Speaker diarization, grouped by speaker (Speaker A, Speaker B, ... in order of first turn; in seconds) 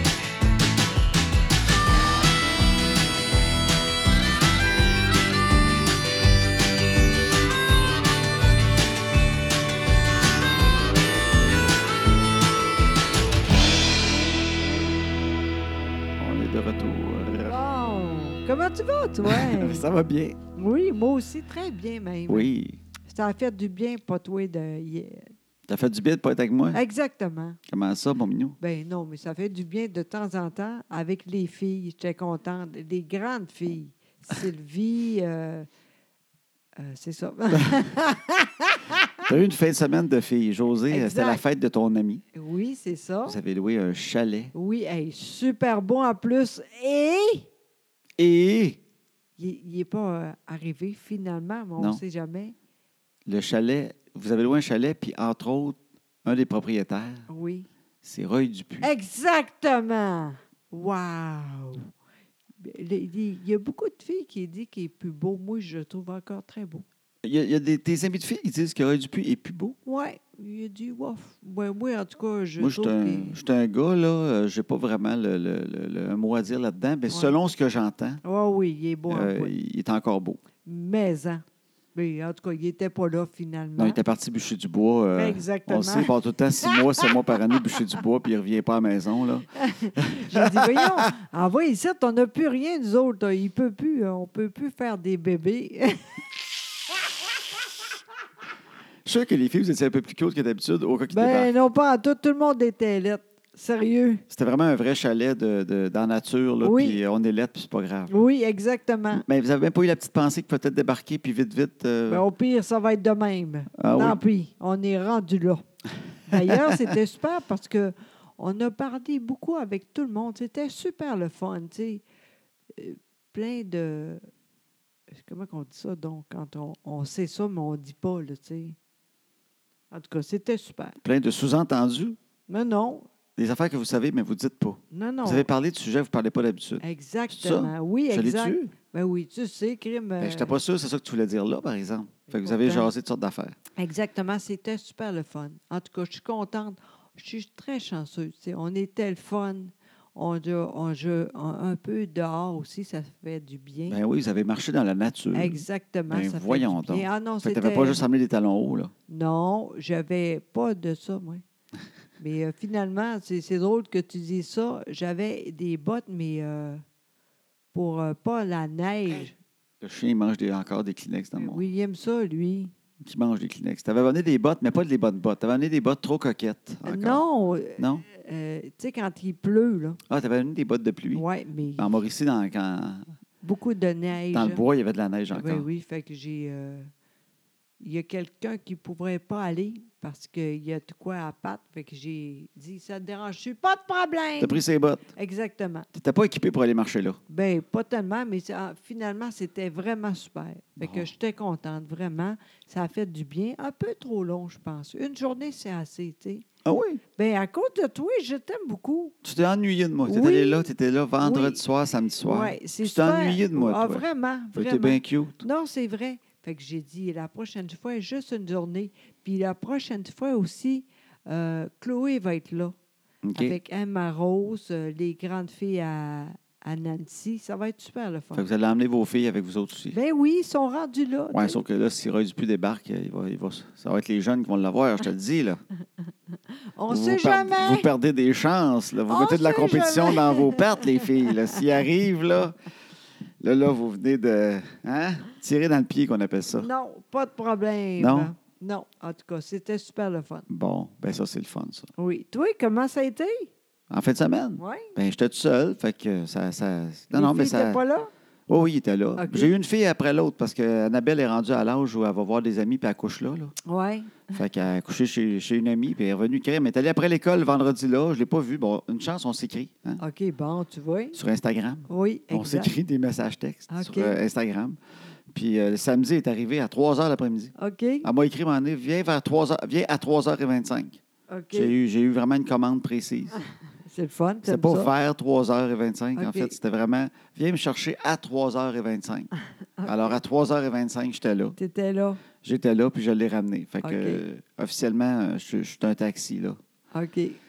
Speaker A: 16.2-17.6, 19.2-20.4, 22.3-22.8, 25.7-26.8, 27.7-28.6, 39.2-42.2, 43.2-44.5, 48.2-48.8, 53.2-57.2, 58.0-58.9, 67.2-69.8, 72.6-78.2, 79.1-80.4, 83.8-91.0, 99.0-101.5, 104.3-108.1, 109.1-112.2, 113.8-114.2, 116.3-116.7, 131.0-132.2, 133.4-138.7, 140.2-143.6, 153.9-158.9, 169.8-171.6, 173.0-177.2, 177.8-178.0, 180.1-181.2, 181.8-183.1, 184.3-185.7, 194.4-195.0, 195.9-197.2, 200.8-201.1, 206.6-207.0, 209.2-214.0, 214.5-215.4, 223.2-223.6, 228.3-230.0, 231.3-235.6, 236.9-242.6, 243.4-246.7, 248.0-248.3, 250.5-251.9, 253.9-257.8, 258.5-263.5, 264.3-270.0, 271.1-274.8, 275.3-277.5, 278.0-281.0, 281.5-283.4, 284.4-289.3, 289.8-291.6, 292.4-296.6
Speaker B: 17.4-19.8, 20.5-22.5, 23.1-25.3, 26.7-27.6, 28.6-35.7, 36.8-39.2, 40.9-41.4, 42.3-43.4, 44.5-47.5, 49.4-52.5, 57.3-57.7, 58.8-61.9, 62.6-66.8, 69.8-73.4, 77.1-77.3, 78.2-79.5, 80.6-81.4, 81.9-84.0, 85.1-86.1, 86.7-87.6, 89.5-96.1, 101.1-104.2, 106.6-107.0, 108.1-109.2, 112.1-115.6, 116.3-122.0, 122.7-124.2, 125.1-128.8, 129.9-131.0, 132.5-133.1, 134.9-135.5, 136.8-140.6, 142.3-142.9, 143.8-154.0, 155.3-158.0, 159.1-161.4, 162.2-166.8, 167.7-169.3, 171.3-172.7, 176.8-180.0, 181.1-182.0, 183.4-184.6, 185.3-186.9, 187.8-194.6, 195.1-195.9, 197.3-206.4, 207.2-209.1, 210.1-210.7, 211.2-211.6, 212.2-222.7, 223.3-228.4, 229.9-231.6, 236.7-237.9, 239.1-241.3, 246.5-250.4, 252.0-253.5, 254.6-254.9, 257.1-258.1, 259.2-259.5, 263.6-264.4, 270.0-271.2, 271.9-272.7, 273.7-274.2, 277.6-278.1, 281.3-281.7, 283.9-284.9, 286.1-286.6, 289.8-290.2, 291.6-292.2, 293.8-294.2, 296.9-297.4